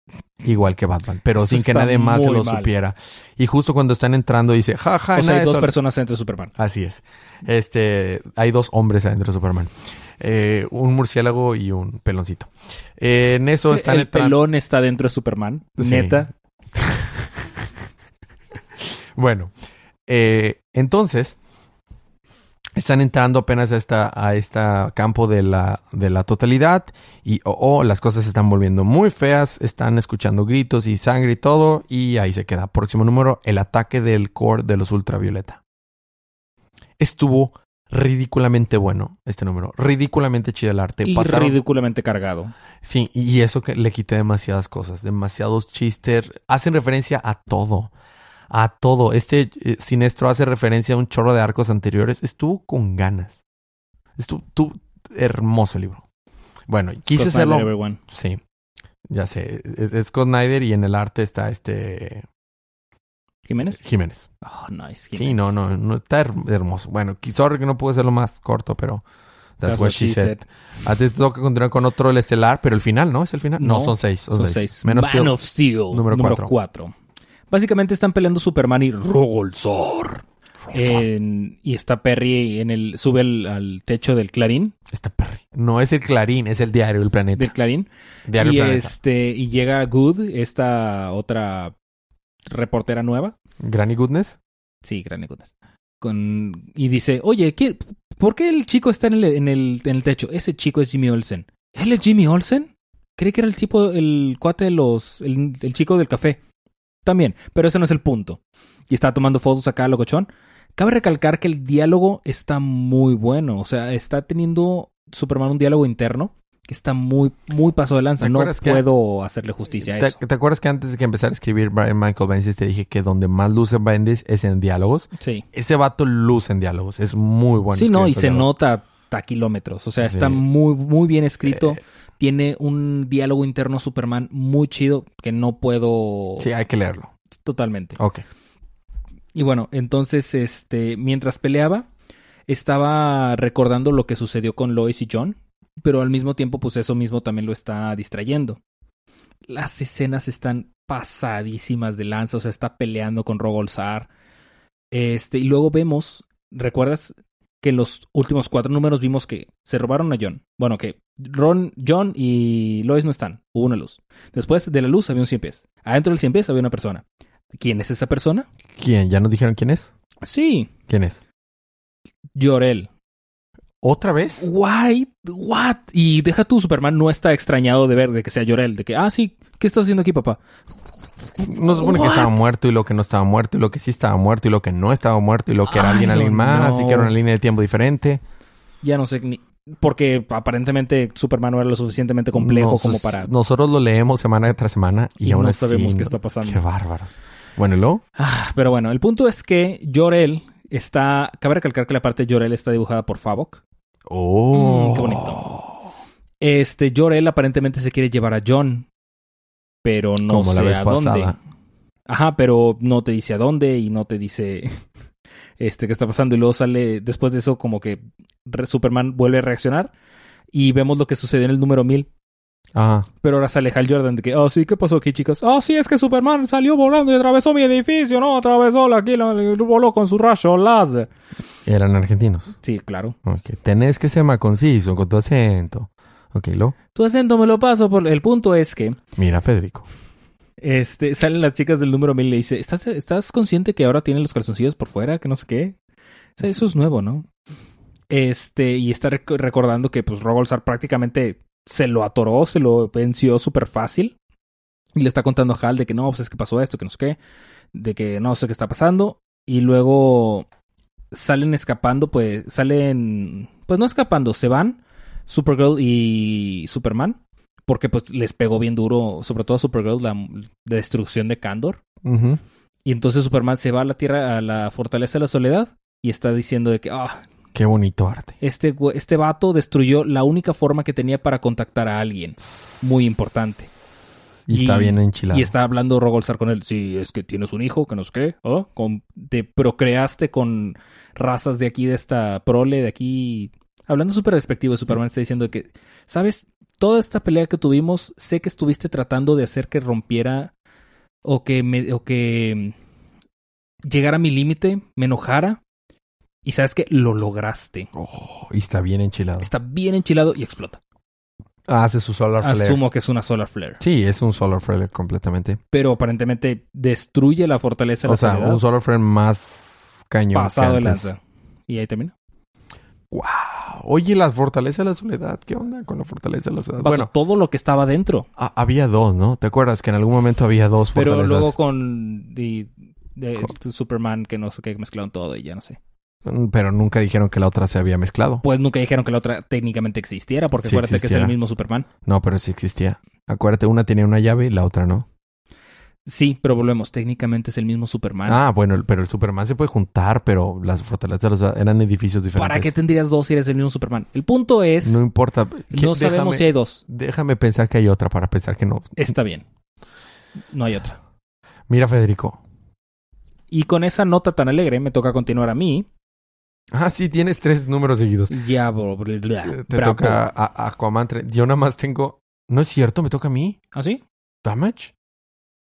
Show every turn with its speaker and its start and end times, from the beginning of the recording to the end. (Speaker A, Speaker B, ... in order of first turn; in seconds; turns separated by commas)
Speaker A: 0.4-5.7, Speaker B: 1.4-2.7, Speaker B: 5.2-6.5, Speaker A: 6.6-14.4, Speaker B: 13.7-16.3, Speaker A: 15.8-17.6, Speaker A: 18.9-19.5, Speaker A: 20.1-21.4, Speaker A: 22.8-35.6, Speaker A: 37.0-41.6, Speaker B: 41.0-42.5, Speaker A: 42.8-47.9, Speaker A: 48.5-53.4, Speaker A: 54.2-56.0, Speaker A: 56.7-58.4, Speaker B: 57.1-58.0, Speaker A: 59.1-62.2, Speaker B: 63.5-63.8, Speaker A: 63.7-64.3, Speaker B: 64.4-65.5, Speaker A: 65.1-69.0, Speaker A: 69.6-75.3, Speaker B: 69.6-70.4, Speaker B: 73.6-76.9, Speaker A: 75.9-76.5, Speaker B: 77.5-84.7, Speaker A: 80.7-81.0, Speaker A: 84.9-87.5, Speaker B: 87.4-91.7, Speaker A: 88.3-88.9, Speaker B: 92.5-93.3, Speaker A: 93.6-94.4, Speaker B: 94.8-106.4, Speaker B: 107.0-120.2, Speaker A: 118.2-118.8, Speaker A: 119.8-128.5, Speaker B: 125.2-125.4, Speaker B: 127.7-136.5, Speaker A: 130.0-130.4, Speaker A: 131.5-131.8, Speaker A: 136.4-137.1, Speaker B: 137.3-138.0, Speaker A: 138.0-138.2, Speaker B: 139.3-141.9, Speaker B: 142.5-148.6, Speaker B: 149.5-154.1, Speaker B: 154.9-168.5, Speaker A: 168.8-169.9, Speaker B: 170.2-170.7, Speaker A: 170.9-171.2, Speaker B: 172.3-172.9, Speaker A: 173.8-174.5, Speaker B: 174.4-180.4, Speaker B: 181.3-182.5, Speaker A: 181.4-188.2, Speaker B: 185.7-187.2, Speaker B: 188.8-193.3, Speaker A: 192.3-198.0, Speaker B: 195.2-196.6, Speaker B: 198.2-203.6, Speaker A: 204.1-205.8, Speaker B: 204.5-205.4, Speaker B: 206.4-208.9, Speaker B: 209.8-211.4, Speaker A: 210.3-211.4, Speaker B: 212.1-214.9, Speaker B: 215.6-219.9, Speaker B: 220.5-222.1, Speaker A: 222.8-223.1, Speaker B: 223.2-231.1, Speaker A: 231.7-232.5, Speaker B: 232.6-233.2, Speaker A: 233.2-236.8, Speaker B: 236.9-239.0, Speaker A: 239.2-239.9, Speaker B: 240.6-245.8, Speaker B: 246.4-247.3, Speaker B: 248.1-254.2, Speaker B: 254.9-257.2, Speaker B: 257.7-260.5, Speaker B: 261.1-271.8, Speaker A: 272.0-272.4, Speaker B: 272.9-277.2, Speaker A: 277.6-278.4, Speaker B: 278.4-283.7, Speaker A: 284.5-285.5, Speaker B: 284.5-300.5, Speaker B: 301.2-302.8, Speaker B: 303.9-305.6, Speaker B: 306.4-307.9, Speaker A: 307.9-309.5, Speaker B: 309.4-310.8, Speaker A: 311.7-312.8, Speaker B: 312.4-313.8, Speaker A: 313.8-315.6, Speaker B: 315.7-318.6, Speaker A: 318.1-321.1, Speaker B: 320.3-322.1, Speaker A: 323.1-327.1, Speaker B: 326.8-328.3, Speaker A: 328.4-331.6, Speaker B: 330.9-335.8, Speaker A: 336.2-338.4, Speaker B: 338.4-341.9, Speaker A: 340.6-341.4, Speaker A: 342.1-345.1, Speaker B: 346.1-348.4, Speaker A: 348.3-352.7, Speaker B: 352.4-355.1, Speaker A: 354.8-359.1, Speaker B: 355.7-356.8, Speaker B: 359.0-359.4, Speaker B: 360.5-361.0, Speaker A: 361.7-362.4, Speaker B: 363.5-365.9, Speaker A: 366.7-368.4, Speaker B: 368.3-370.2, Speaker A: 369.5-373.6, Speaker B: 373.7-374.0, Speaker A: 374.4-374.9